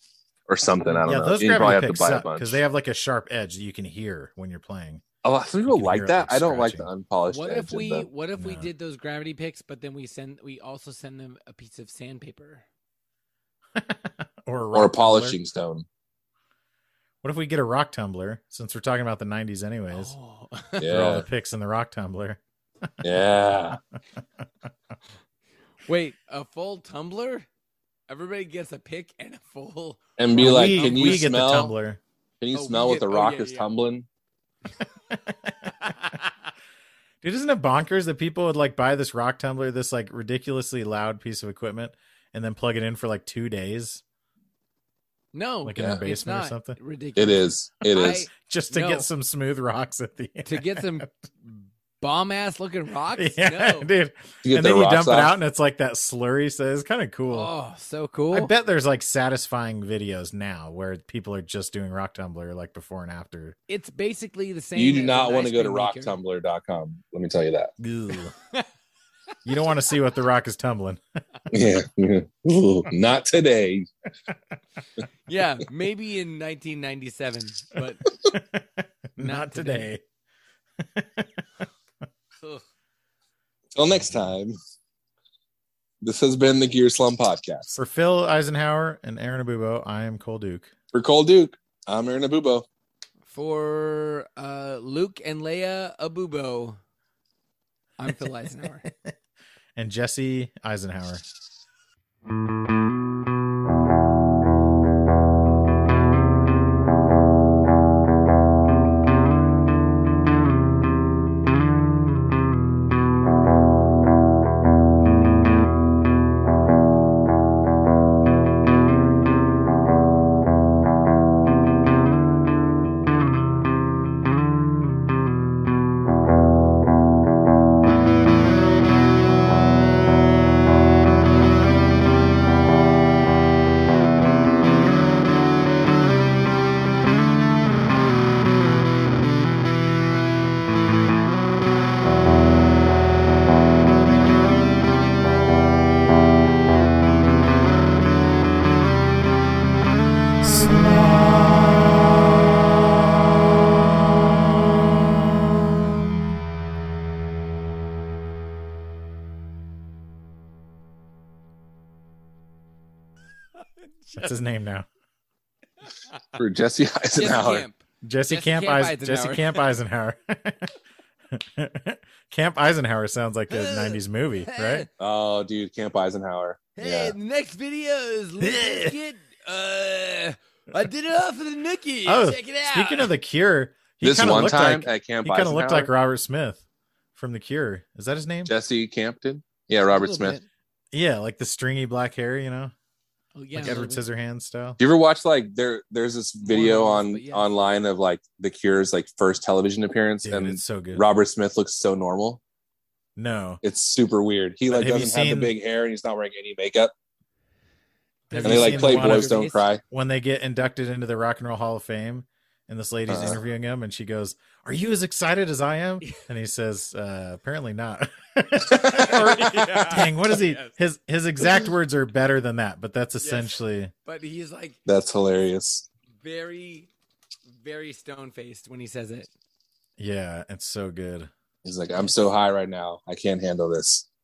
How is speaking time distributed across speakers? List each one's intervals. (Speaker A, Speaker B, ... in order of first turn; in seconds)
Speaker A: 0.5-2.6, 5.2-8.1, 14.7-15.8, 20.8-21.2, 23.0-23.8, 30.2-31.7, 32.4-34.1, 47.1-48.2, 54.4-55.3, 64.8-67.7, 71.5-73.9, 83.7-84.5, 86.0-87.7, 90.9-92.7, 166.4-167.6, 175.0-177.2, 184.0-185.9, 188.5-190.4, 194.8-202.4, 203.6-206.9, 208.4-209.8, 213.1-213.4, 218.7-219.3, 224.8-225.8, 231.6-234.1
Speaker B: 0.8-1.1, 7.3-12.6, 19.9-20.9, 25.8-27.5, 28.1-31.2, 32.5-33.7, 35.8-36.5, 45.3-49.1, 50.5-53.9, 57.3-58.5, 63.7-66.2, 75.3-78.1, 79.2-79.9, 93.3-96.8, 98.0-98.9, 164.0-164.3, 166.1-166.4, 167.2-169.7, 173.5-174.9, 176.8-183.1, 189.9-190.4, 193.3-194.1, 196.4-197.5, 208.3-209.7, 219.0-220.7, 223.2-224.8, 226.2-226.9, 227.6-229.3
Speaker C: 1.1-5.0, 5.7-6.9, 8.4-8.7, 13.7-15.4, 17.2-20.1, 20.9-23.0, 30.4-32.0, 35.1-35.9, 37.2-44.0, 45.6-46.8, 48.3-51.1, 53.1-57.5, 58.3-63.5, 67.8-68.3, 69.4-71.0, 78.2-80.0, 80.8-81.7, 87.7-90.7, 99.8-101.2, 150.4-153.0, 154.8-156.4, 164.1-164.8, 168.0-170.7, 171.3-174.9, 178.4-179.0, 182.1-186.6, 187.1-188.5, 190.9-192.7, 193.5-194.8, 200.2-201.0, 203.2-203.6, 204.7-205.5, 208.3-223.9, 230.0-231.3